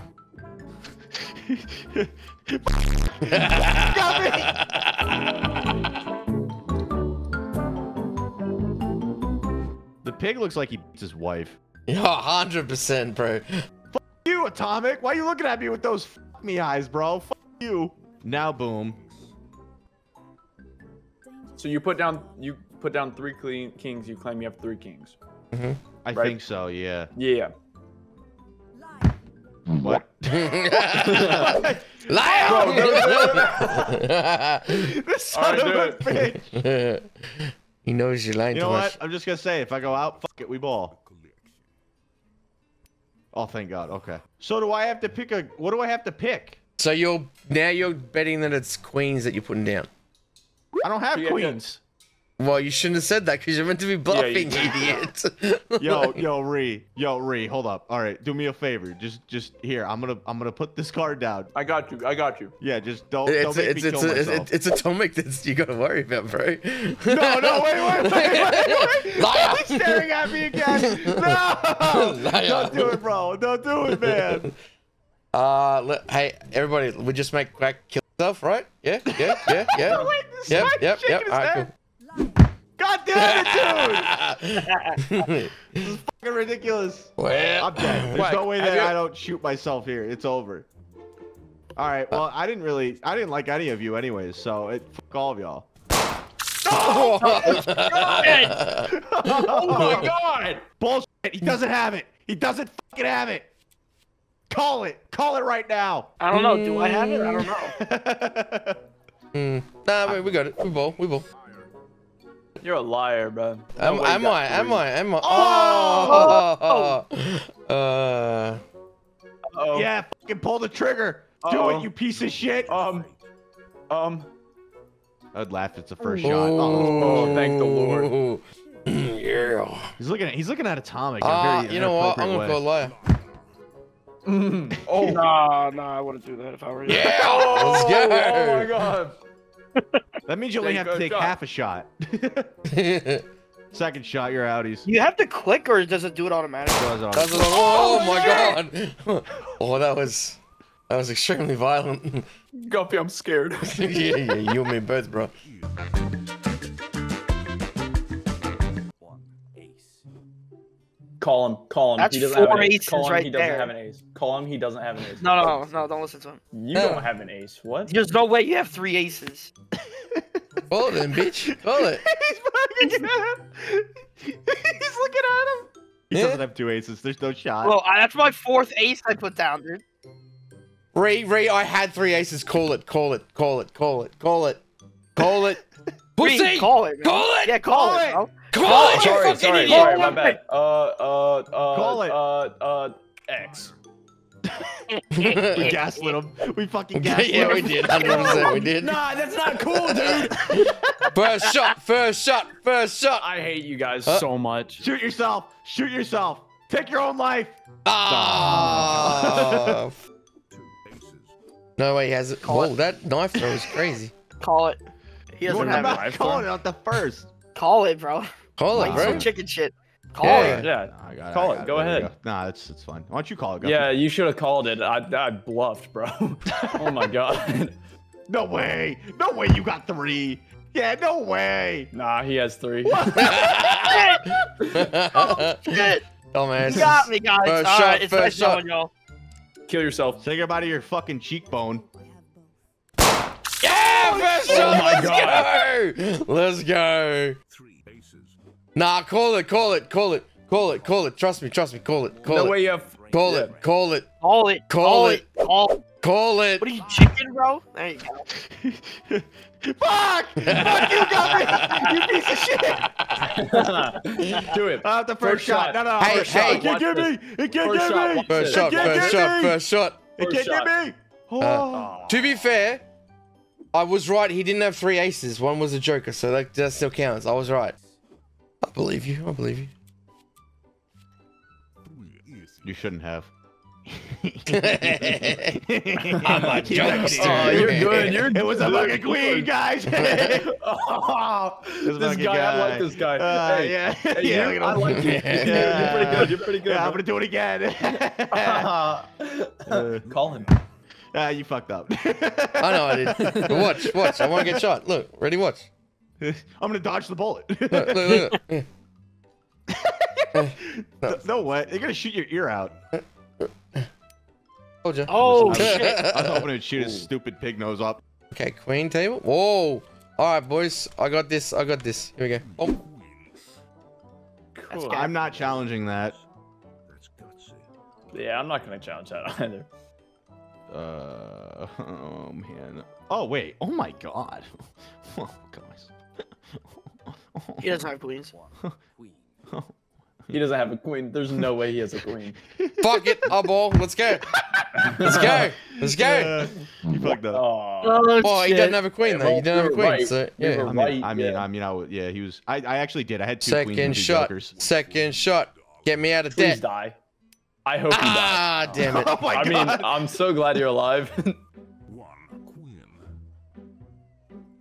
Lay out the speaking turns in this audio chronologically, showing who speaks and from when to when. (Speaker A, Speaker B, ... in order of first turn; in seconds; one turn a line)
Speaker A: 1.5-4.6
Speaker B: 3.2-5.3
Speaker A: 10.0-11.6
Speaker B: 11.9-13.5
Speaker A: 13.9-19.0
Speaker C: 21.6-25.1
Speaker B: 25.5-25.8
Speaker A: 26.0-27.1
Speaker C: 26.1-26.4
Speaker C: 27.1-27.5
Speaker A: 29.7-33.9
Speaker B: 30.3-34.9
Speaker C: 31.1-31.4
Speaker C: 32.3-33.8
Speaker A: 34.7-36.6
Speaker C: 35.3-36.0
Speaker B: 36.1-39.0
Speaker A: 38.5-41.0
Speaker A: 43.3-46.6
Speaker B: 46.8-49.9
Speaker A: 50.8-51.8
Speaker C: 51.1-51.6
Speaker B: 52.4-56.2
Speaker C: 54.1-55.0
Speaker A: 55.8-61.5
Speaker C: 61.5-62.5
Speaker A: 62.6-64.5
Speaker B: 63.2-70.1
Speaker A: 67.0-74.5
Speaker B: 70.7-71.2
Speaker B: 71.8-73.0
Speaker B: 73.9-74.5
Speaker B: 75.3-81.7
Speaker A: 79.1-81.7
Speaker A: 82.8-84.1
Speaker B: 83.1-85.7
Speaker D: 84.7-85.0
Speaker A: 85.7-90.7
Speaker B: 87.2-88.2
Speaker C: 88.1-89.0
Speaker A: 91.8-95.7
Speaker B: 96.7-98.9
Speaker A: 96.7-97.6
Speaker D: 96.9-98.6
Speaker A: 98.8-100.1
Speaker C: 99.2-100.6
Speaker B: 99.8-100.0
Speaker A: 100.8-103.5
Speaker A: 104.5-106.1
Speaker D: 106.2-107.7
Speaker B: 106.3-107.5
Speaker A: 107.5-108.8
Speaker B: 109.3-111.2
Speaker C: 112.6-114.8
Speaker B: 113.8-118.6
Speaker A: 115.2-116.4
Speaker D: 116.0-117.0
Speaker C: 119.5-119.9
Speaker A: 119.7-122.7
Speaker C: 121.4-121.9
Speaker C: 122.7-123.1
Speaker C: 123.9-124.3
Speaker A: 125.3-127.4
Speaker C: 126.0-128.1
Speaker B: 126.2-129.9
Speaker A: 130.0-132.6
Speaker B: 131.2-132.9
Speaker C: 134.2-135.3
Speaker D: 135.0-137.9
Speaker B: 136.8-138.7
Speaker C: 136.9-139.2
Speaker A: 140.3-142.5
Speaker C: 140.6-141.3
Speaker B: 142.7-143.2
Speaker A: 143.7-144.9
Speaker D: 144.8-146.9
Speaker A: 146.7-148.6
Speaker B: 147.1-152.2
Speaker C: 152.6-153.7
Speaker B: 153.7-155.3
Speaker C: 161.2-165.6
Speaker D: 162.0-163.7
Speaker D: 165.2-166.4
Speaker C: 166.5-167.9
Speaker B: 166.7-167.1
Speaker D: 167.9-169.5
Speaker A: 170.0-170.4
Speaker B: 170.7-172.0
Speaker A: 171.1-177.8
Speaker B: 176.1-176.4
Speaker D: 177.6-179.8
Speaker B: 180.9-184.6
Speaker B: 185.2-185.6
Speaker A: 185.2-185.5
Speaker B: 186.2-187.6
Speaker D: 186.2-190.4
Speaker A: 187.6-188.2
Speaker B: 188.5-190.1
Speaker C: 188.6-193.7
Speaker A: 191.7-192.2
Speaker B: 195.1-195.8
Speaker A: 195.3-201.1
Speaker B: 196.9-199.0
Speaker D: 197.9-198.5
Speaker C: 198.8-200.4
Speaker B: 200.1-203.3
Speaker C: 203.2-204.8
Speaker A: 204.8-209.8
Speaker B: 207.8-210.0
Speaker B: 211.8-214.1
Speaker D: 212.4-212.7
Speaker A: 213.4-213.7
Speaker D: 214.4-214.8
Speaker D: 215.3-216.1
Speaker C: 215.5-216.5
Speaker A: 215.5-217.3
Speaker D: 217.5-220.6
Speaker B: 218.6-219.3
Speaker A: 218.7-219.3
Speaker B: 220.2-220.7
Speaker A: 220.2-223.9
Speaker C: 220.4-222.1
Speaker C: 223.6-227.8
Speaker A: 228.3-231.9
Speaker C: 231.9-233.3
Speaker A: 232.8-233.7
Speaker B: 233.2-234.1
Speaker D: 233.8-234.3
Speaker B: 234.7-235.8
Speaker D: 235.1-236.1
Speaker B: 236.3-238.6
Speaker D: 236.6-238.9
Speaker C: 239.7-240.2
Speaker A: 240.2-241.8
Speaker B: 243.6-247.4
Speaker A: 243.7-245.2
Speaker C: 244.5-245.5
Speaker B: 248.7-252.6
Speaker C: 252.2-253.5
Speaker B: 253.1-254.1
Speaker D: 254.2-255.8
Speaker B: 254.7-255.2
Speaker B: 256.0-256.7
Speaker D: 256.6-258.2
Speaker A: 258.4-263.6
Speaker B: 260.4-261.9
Speaker C: 263.2-269.2
Speaker A: 264.7-269.6
Speaker B: 266.0-266.7
Speaker B: 268.3-270.0
Speaker A: 270.2-271.9
Speaker C: 270.2-270.7
Speaker B: 271.4-272.8
Speaker C: 271.7-272.4
Speaker B: 273.7-277.7
Speaker B: 278.6-279.7
Speaker A: 282.6-283.3
Speaker A: 283.9-290.5
Speaker B: 284.5-285.5
Speaker B: 286.2-288.2
Speaker C: 286.2-289.5
Speaker C: 290.1-297.0
Speaker A: 291.8-298.7
Speaker B: 295.0-296.1
Speaker C: 298.3-300.5
Speaker A: 299.7-300.1
Speaker A: 301.1-304.6
Speaker B: 302.6-305.7
Speaker A: 306.2-308.2
Speaker B: 307.7-308.7
Speaker A: 309.7-312.7
Speaker B: 310.4-311.2
Speaker B: 312.9-313.9
Speaker B: 314.8-316.4
Speaker D: 315.1-316.0
Speaker A: 315.2-318.0
Speaker B: 318.3-322.8
Speaker C: 324.5-325.1
Speaker D: 324.7-325.2
Speaker A: 324.8-326.2
Speaker C: 328.1-329.7
Speaker A: 330.7-334.5
Speaker A: 335.1-335.9
Speaker A: 337.3-337.8
Speaker D: 337.6-338.3
Speaker A: 339.5-339.7
Speaker C: 340.3-342.4
Speaker A: 342.5-343.0
Speaker B: 342.8-344.3
Speaker A: 344.4-347.4
Speaker C: 344.8-345.4
Speaker B: 345.0-346.4
Speaker C: 347.3-348.2
Speaker D: 347.8-348.8
Speaker B: 348.2-350.7
Speaker C: 348.9-351.4
Speaker A: 350.6-354.6
Speaker B: 353.4-356.6
Speaker C: 356.3-357.0
Speaker C: 357.6-358.8
Speaker B: 357.9-359.2
Speaker A: 358.7-360.0
Speaker C: 359.3-361.4